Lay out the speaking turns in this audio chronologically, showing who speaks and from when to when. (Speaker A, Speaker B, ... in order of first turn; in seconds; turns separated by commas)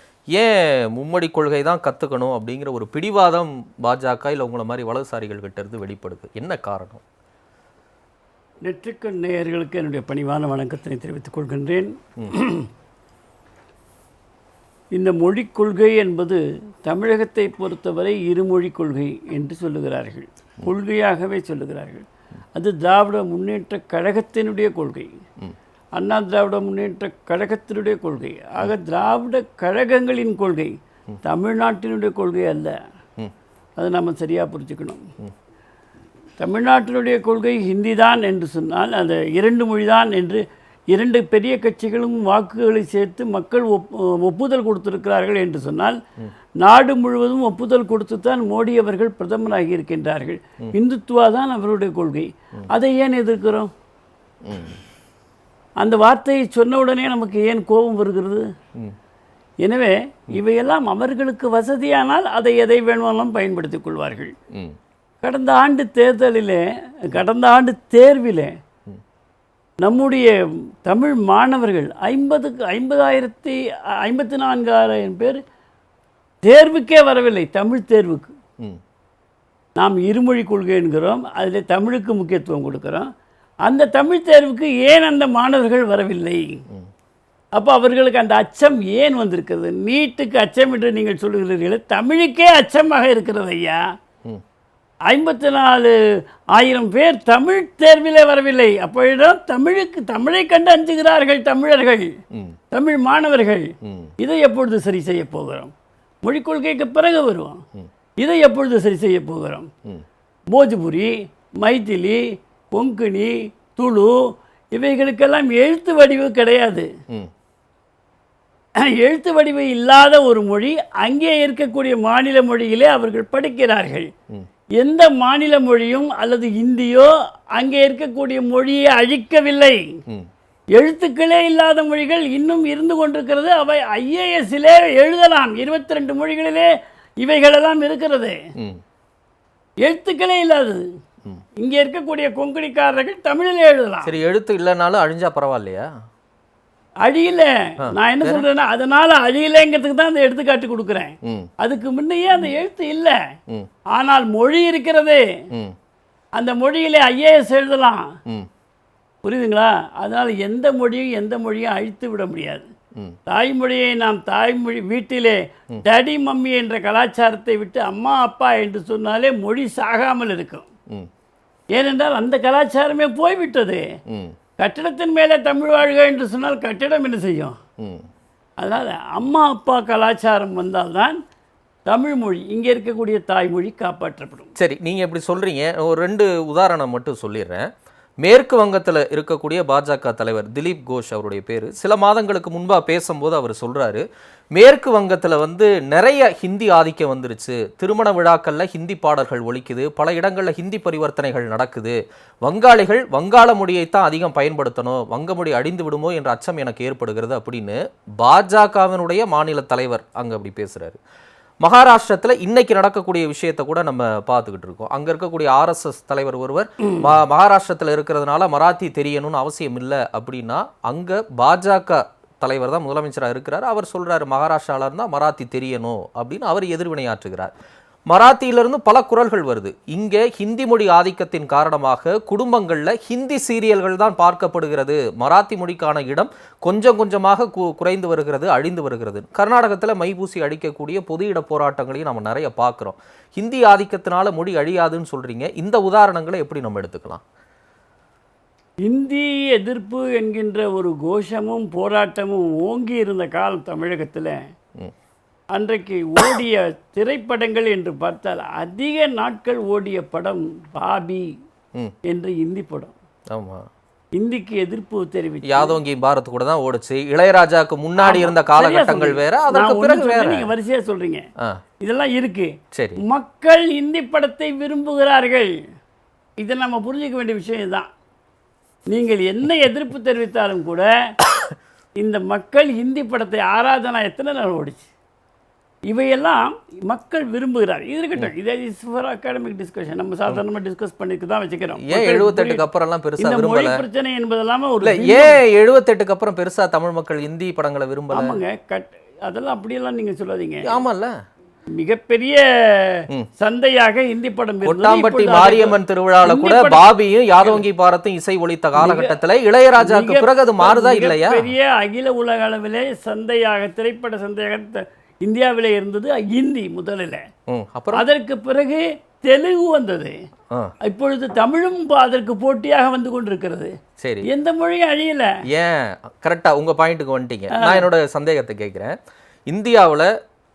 Speaker A: 0.3-7.0, Speaker B: 8.7-12.7, Speaker B: 14.9-22.0, Speaker B: 22.6-25.1, Speaker B: 26.0-30.7, Speaker B: 31.2-32.8, Speaker B: 33.8-35.0, Speaker B: 36.4-46.0, Speaker B: 46.6-53.7, Speaker A: 54.5-54.8, Speaker B: 55.8-58.4, Speaker B: 59.6-64.3, Speaker B: 65.2-68.5, Speaker B: 69.8-70.3, Speaker B: 70.9-75.4, Speaker B: 76.5-78.3, Speaker B: 79.8-83.1, Speaker B: 83.7-86.5, Speaker B: 87.6-93.8, Speaker B: 95.1-95.9, Speaker B: 96.5-102.1, Speaker B: 102.7-103.7, Speaker A: 103.8-104.1, Speaker B: 104.2-105.7, Speaker B: 106.2-107.6, Speaker B: 108.2-109.7, Speaker B: 110.5-112.2, Speaker B: 112.7-114.1, Speaker B: 114.7-116.9, Speaker B: 118.8-124.1, Speaker B: 124.8-129.8, Speaker B: 130.8-136.7, Speaker B: 137.2-138.4, Speaker B: 139.8-140.8, Speaker B: 141.6-144.1, Speaker A: 144.1-145.8, Speaker B: 147.1-153.2, Speaker A: 147.9-148.5, Speaker B: 153.9-155.2, Speaker B: 156.4-158.1, Speaker B: 159.2-162.7, Speaker B: 163.3-170.7, Speaker B: 171.7-173.8, Speaker B: 174.6-177.6, Speaker A: 177.8-178.1, Speaker B: 178.6-181.2, Speaker B: 181.9-184.5, Speaker A: 184.6-187.7, Speaker A: 188.2-194.0, Speaker A: 194.5-211.0, Speaker A: 211.6-227.5, Speaker A: 228.1-247.2, Speaker B: 248.9-254.4, Speaker B: 255.5-261.3, Speaker B: 262.1-262.9, Speaker A: 263.3-263.6, Speaker B: 264.2-265.8, Speaker A: 265.5-270.5, Speaker B: 268.0-271.2, Speaker B: 271.8-272.5, Speaker A: 272.7-273.0, Speaker B: 273.1-275.5, Speaker B: 276.4-277.9, Speaker B: 278.9-280.9, Speaker B: 282.0-284.9, Speaker B: 285.9-292.6, Speaker A: 291.8-293.8, Speaker B: 293.2-295.4, Speaker A: 294.8-298.3, Speaker B: 298.1-300.7, Speaker A: 300.6-301.1, Speaker B: 301.8-306.9, Speaker A: 304.7-311.5, Speaker B: 308.8-309.2, Speaker B: 309.8-317.2, Speaker A: 317.5-318.1, Speaker B: 317.9-320.1, Speaker B: 320.9-323.7, Speaker A: 324.0-324.3, Speaker B: 324.3-325.3, Speaker A: 325.5-328.9, Speaker B: 327.6-327.9, Speaker A: 329.5-330.1